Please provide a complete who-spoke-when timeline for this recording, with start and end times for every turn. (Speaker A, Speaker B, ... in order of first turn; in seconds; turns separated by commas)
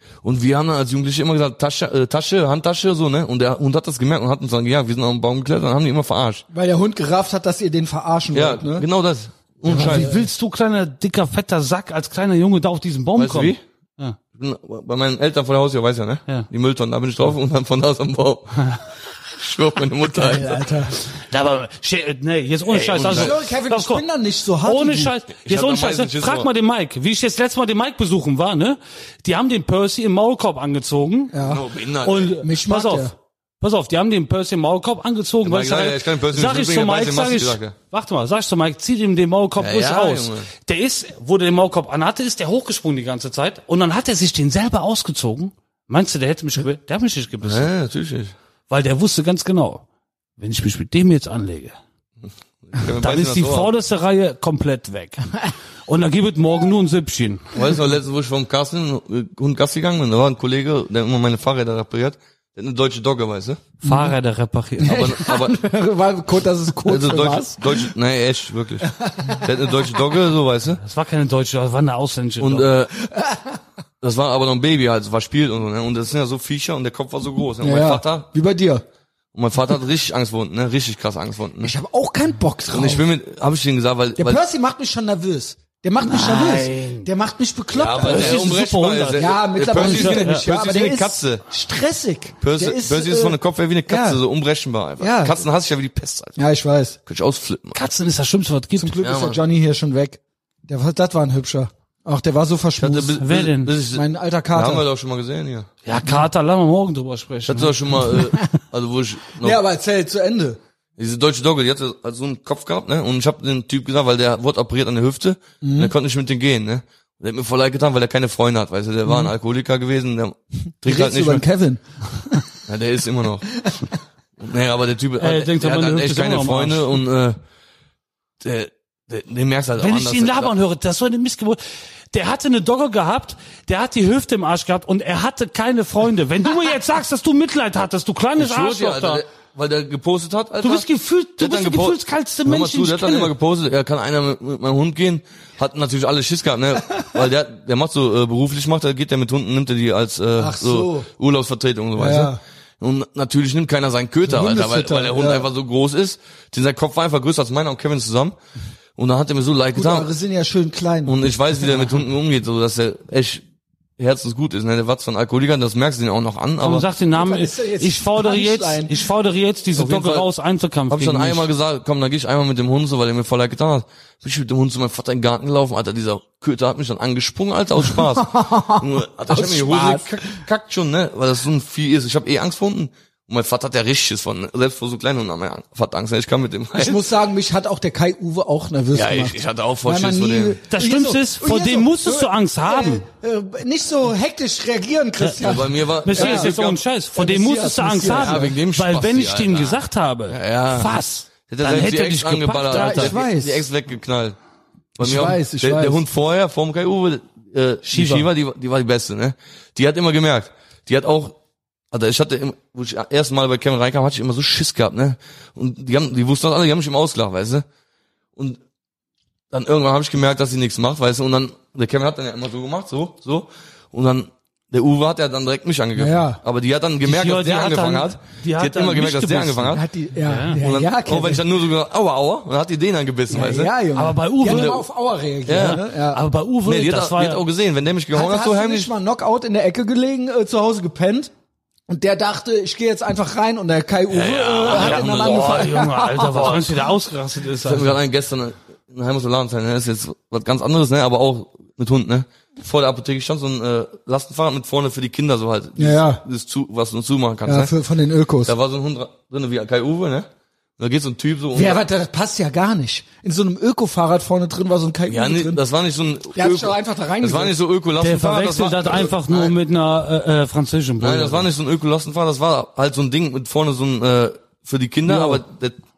Speaker A: 0.2-6.4, Speaker B: 6.5-8.9, Speaker A: 8.3-10.1, Speaker B: 9.7-10.2, Speaker C: 9.7-14.2, Speaker A: 13.2-13.6, Speaker A: 14.3-20.7, Speaker B: 20.1-20.9, Speaker C: 21.2-24.0, Speaker A: 22.7-23.4, Speaker B: 23.0-25.1, Speaker C: 24.6-31.4, Speaker A: 25.4-26.5, Speaker B: 31.3-31.7, Speaker A: 31.4-32.3, Speaker C: 32.0-47.7, Speaker B: 32.4-33.1, Speaker A: 35.4-37.8, Speaker A: 39.6-40.5, Speaker A: 47.4-48.3, Speaker C: 48.7-49.9, Speaker C: 50.4-51.8, Speaker A: 52.2-53.7, Speaker C: 53.0-57.5, Speaker A: 57.5-63.6, Speaker C: 63.8-65.2, Speaker B: 63.8-64.1, Speaker B: 64.8-67.9, Speaker A: 64.8-65.6, Speaker A: 66.8-70.8, Speaker B: 68.8-69.5, Speaker C: 70.8-72.7, Speaker A: 72.4-72.9, Speaker B: 73.0-73.6, Speaker A: 74.0-78.3, Speaker B: 77.6-78.8, Speaker A: 79.3-81.8, Speaker B: 81.6-83.1, Speaker A: 82.7-84.4, Speaker B: 84.2-88.6, Speaker C: 86.0-87.1, Speaker A: 87.7-91.4, Speaker C: 88.0-90.5, Speaker B: 89.2-94.2, Speaker A: 92.4-96.4, Speaker B: 95.0-95.4, Speaker B: 96.4-97.0, Speaker A: 97.1-97.8, Speaker C: 97.7-98.9, Speaker B: 98.8-103.2, Speaker A: 99.0-99.4, Speaker A: 102.8-105.7, Speaker C: 103.2-103.7, Speaker B: 103.9-104.8, Speaker C: 105.8-107.8, Speaker A: 107.5-109.6, Speaker B: 108.1-108.4, Speaker B: 109.4-110.6, Speaker A: 111.0-121.4, Speaker B: 115.6-115.9, Speaker B: 120.8-122.5, Speaker A: 122.7-123.6, Speaker A: 124.4-127.4, Speaker C: 125.2-127.0, Speaker A: 128.4-130.5, Speaker C: 129.8-131.6, Speaker C: 132.1-139.2, Speaker A: 138.4-140.9, Speaker C: 140.6-143.3, Speaker A: 141.4-158.4, Speaker B: 150.4-151.1, Speaker B: 152.0-152.4, Speaker B: 154.3-155.5, Speaker A: 159.0-160.1, Speaker B: 159.7-161.9, Speaker A: 161.1-163.4, Speaker A: 164.0-166.8, Speaker C: 166.6-171.5, Speaker B: 167.1-169.1, Speaker A: 169.7-170.3, Speaker A: 170.9-187.0, Speaker B: 177.9-180.4, Speaker B: 186.8-196.6, Speaker A: 188.9-190.6, Speaker C: 190.7-193.1, Speaker A: 195.4-196.8, Speaker C: 196.0-203.2, Speaker B: 197.2-198.5, Speaker A: 198.1-200.9, Speaker A: 201.5-204.4, Speaker B: 202.7-203.7, Speaker A: 205.0-211.4, Speaker B: 205.0-206.0, Speaker C: 207.8-208.3, Speaker A: 211.9-217.7, Speaker A: 218.4-218.6, Speaker A: 219.5-229.8, Speaker B: 226.0-226.4, Speaker C: 227.0-230.6, Speaker B: 229.7-231.4, Speaker A: 230.6-233.8, Speaker B: 233.3-236.2, Speaker C: 233.9-234.8, Speaker A: 234.4-234.8, Speaker A: 235.5-235.8, Speaker C: 235.5-237.4, Speaker A: 236.7-238.9, Speaker B: 238.1-241.3, Speaker B: 241.9-246.7, Speaker A: 244.1-245.8, Speaker C: 244.7-248.0, Speaker A: 247.6-257.7, Speaker B: 255.8-256.2, Speaker B: 257.4-258.5, Speaker A: 258.4-260.3, Speaker A: 260.8-261.9, Speaker B: 261.6-265.6, Speaker A: 265.1-269.6, Speaker B: 266.4-267.6, Speaker C: 268.0-271.5, Speaker A: 271.0-275.8, Speaker B: 275.1-275.4